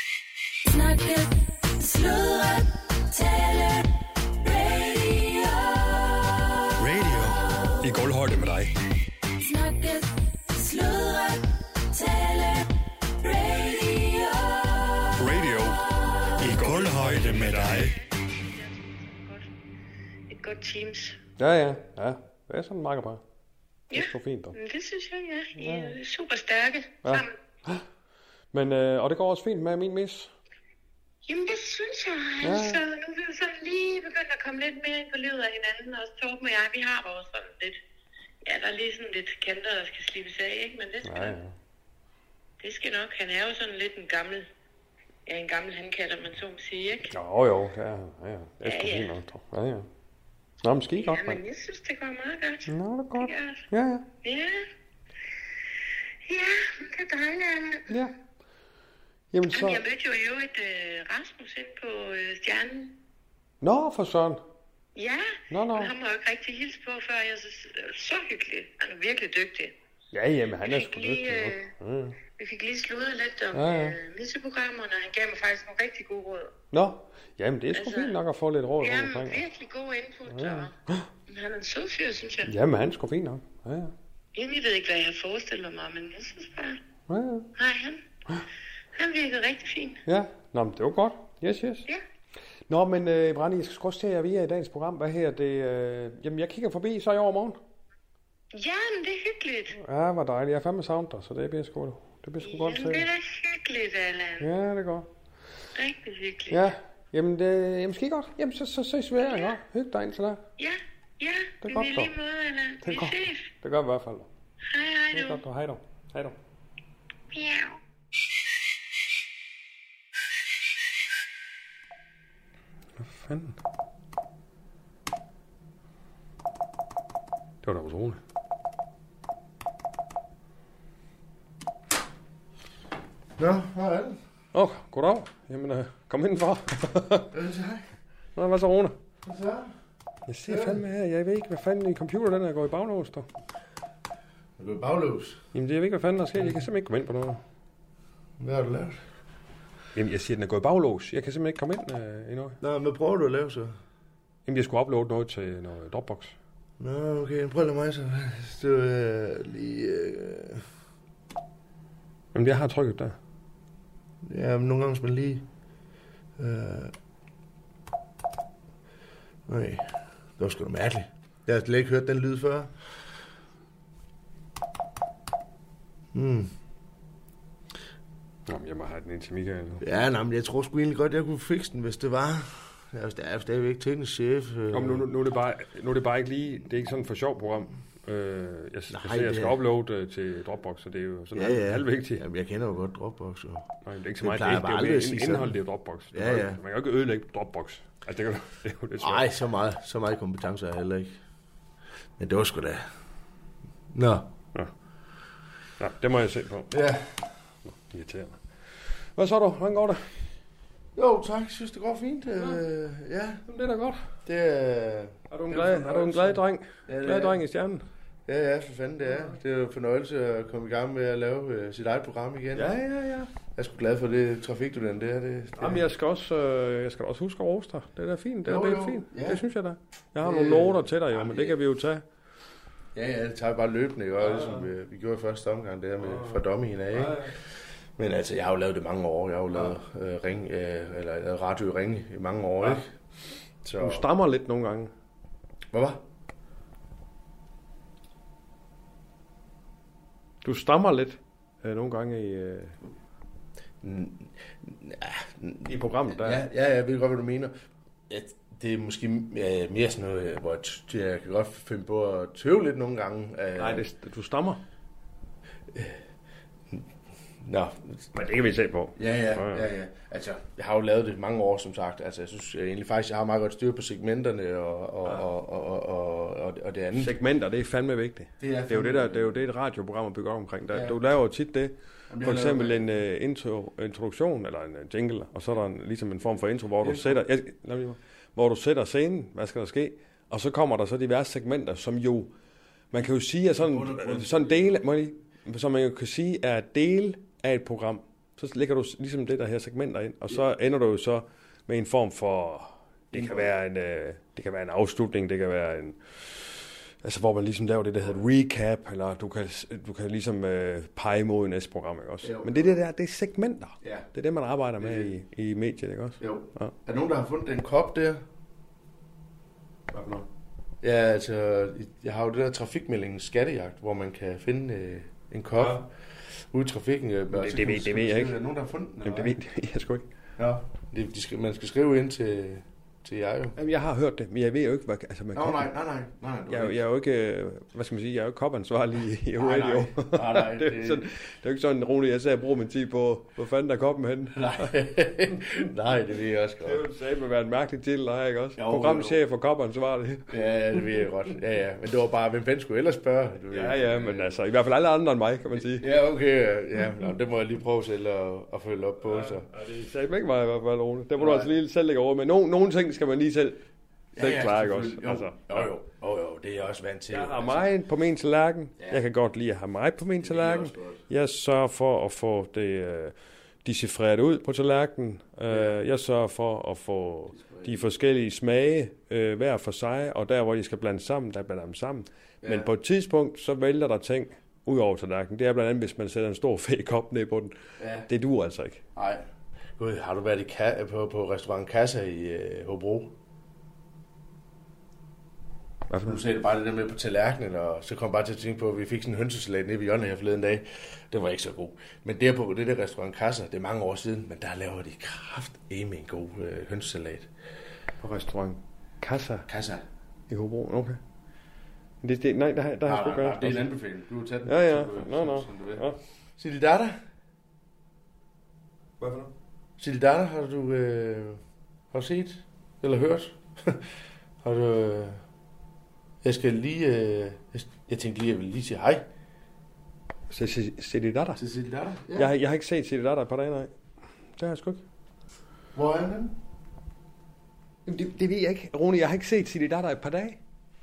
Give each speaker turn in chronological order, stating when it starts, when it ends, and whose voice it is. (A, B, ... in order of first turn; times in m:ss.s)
0:00.7-0:06.7 A
0:06.8-0:07.5 B
0:07.8-0:08.8 C
0:09.4-0:15.2 A
0:15.2-0:15.8 C
0:16.4-0:18.0 B
0:16.4-0:17.9 C
0:17.7-0:19.5 D
0:20.3-0:21.2 D
0:21.4-0:23.2 C
0:23.9-0:27.3 D
0:23.9-0:24.5 C
0:25.6-0:26.0 C
0:27.0-0:27.8 C
0:28.5-0:30.3 C
0:31.3-0:37.8 D
0:32.4-0:32.8 C
0:38.4-0:41.4 D
0:41.0-0:41.6 C
0:42.6-0:44.5 D
0:45.3-0:47.2 D
0:47.1-0:49.9 C
0:48.6-0:49.1 D
0:50.6-0:51.4 C
0:51.0-0:53.6 D
0:52.7-0:54.0 C
0:54.2-0:54.6 D
0:56.3-0:57.9 D
0:59.3-0:59.8 C
0:59.5-1:03.0 D
1:03.6-1:04.4 C
1:05.0-1:09.7 D
1:05.5-1:05.9 C
1:10.1-1:12.2 C
1:10.6-1:11.7 D
1:12.3-1:16.5 D
1:13.5-1:14.0 C
1:16.7-1:19.4 C
1:17.7-1:18.2 D
1:18.8-1:20.7 D
1:20.3-1:21.1 C
1:21.3-1:22.5 D
1:22.4-1:23.9 C
1:24.3-1:26.8 D
1:27.1-1:27.5 C
1:27.6-1:28.0 D
1:29.0-1:30.0 D
1:30.1-1:31.8 C
1:32.7-1:37.6 C
1:38.5-1:39.8 D
1:39.8-1:43.1 C
1:42.4-1:44.5 D
1:44.4-1:45.1 C
1:45.8-1:46.7 D
1:46.5-1:50.4 C
1:49.2-1:49.6 D
1:50.6-1:53.5 D
1:51.6-1:52.1 C
1:52.8-1:54.3 C
1:54.7-1:55.4 D
1:55.1-1:56.4 C
1:57.3-1:57.8 D
2:03.0-2:03.6 C
2:07.6-2:08.2 C
2:13.4-2:14.2 E
2:14.5-2:17.3 C
2:17.3-2:17.8 E
2:18.4-2:18.9 C
2:19.2-2:19.7 E
2:20.3-2:23.3 C
2:20.5-2:20.8 E
2:24.6-2:25.4 E
2:25.5-2:27.4 C
2:28.4-2:29.0 E
2:29.9-2:32.6 C
2:32.6-2:33.8 E
2:34.5-2:36.3 C
2:36.8-2:40.6 E
2:42.3-2:43.2 C
2:44.2-2:45.4 E
2:46.4-2:46.9 E
2:49.5-2:49.9 E
2:50.4-2:52.7 E
2:56.1-2:56.5 E
2:58.5-2:59.8 C
2:59.8-3:05.1 E
3:04.7-3:12.2 C
3:08.9-3:09.6 E
3:11.3-3:13.6 E
3:13.8-3:19.2 C
3:14.2-3:15.6 E
3:16.1-3:16.6 E
3:19.0-3:21.1 E
3:22.2-3:22.8 E
3:23.9-3:24.2 E
3:25.8-3:26.7 C
3:26.7-3:27.2 E
3:27.7-3:30.1 C
3:31.0-3:33.4 E
3:33.5-3:34.0 C
3:34.2-3:37.4 E
3:35.3-3:37.8 C
3:38.3-3:42.7 E
3:39.0-3:39.3 C
3:42.5-3:43.3 C
3:43.5-3:45.8 E
3:45.6-3:52.0 C
3:48.5-3:49.4 E
3:50.2-3:51.6 E
3:52.9-3:57.3 E
3:54.2-3:54.7 C
3:56.0-3:57.3 C
3:58.0-4:02.9 E
4:03.6-4:04.0 E
4:03.8-4:04.9 C
4:05.7-4:06.0 E
4:10.4-4:12.8 C
4:13.8-4:17.5 E
4:15.6-4:16.5 C
4:18.1-4:23.8 E
4:23.6-4:24.6 C
4:27.4-4:28.0 E
4:28.1-4:29.7 C
4:29.0-4:37.1 E
4:36.9-4:52.3 C
4:38.4-4:39.3 E
4:40.7-4:41.0 E
4:42.1-4:43.0 E
4:46.8-4:47.2 E
4:52.9-5:16.7 C
4:53.5-4:54.8 E
5:03.1-5:03.5 E
5:12.2-5:12.8 E
5:14.8-5:15.1 E
5:16.2-5:18.2 E
5:19.9-5:20.2 E
5:20.8-5:25.9 E
5:25.6-5:25.8 C
5:26.5-5:29.4 E
5:27.3-5:28.3 C
5:29.0-5:30.0 C
5:30.4-5:33.6 E
5:33.6-5:35.7 C
5:35.3-5:36.8 E
5:36.5-5:44.7 C
5:39.4-5:41.1 E
5:44.3-5:46.8 E
5:46.6-5:50.3 C
5:48.6-5:49.2 E
5:50.3-5:54.3 E
5:53.5-5:55.9 C
5:55.6-5:59.4 E
5:59.0-6:03.6 C
6:01.2-6:01.5 E
6:04.2-6:07.7 E
6:04.2-6:05.7 C
6:07.1-6:28.8 C
6:10.2-6:11.0 E
6:15.5-6:15.8 E
6:17.4-6:17.8 E
6:22.4-6:22.7 E
6:27.8-6:28.1 E
6:29.0-6:29.2 E
6:29.8-6:33.1 E
6:35.9-6:36.2 C
6:36.0-6:47.3 E
6:48.0-6:49.5 C
6:49.5-6:49.8 E
6:50.3-6:51.0 C
6:52.0-6:53.7 C
6:52.8-6:55.8 E
6:54.4-6:56.0 C
6:56.4-6:57.0 E
6:59.0-6:59.3 C
6:59.8-7:01.4 E
7:01.9-7:03.8 E
7:04.4-7:05.2 E
7:06.2-7:09.0 E
7:10.3-7:11.4 C
7:11.4-7:12.3 E
7:12.2-7:13.7 C
7:14.4-7:14.8 C
7:15.8-7:16.3 E
7:17.9-7:20.4 C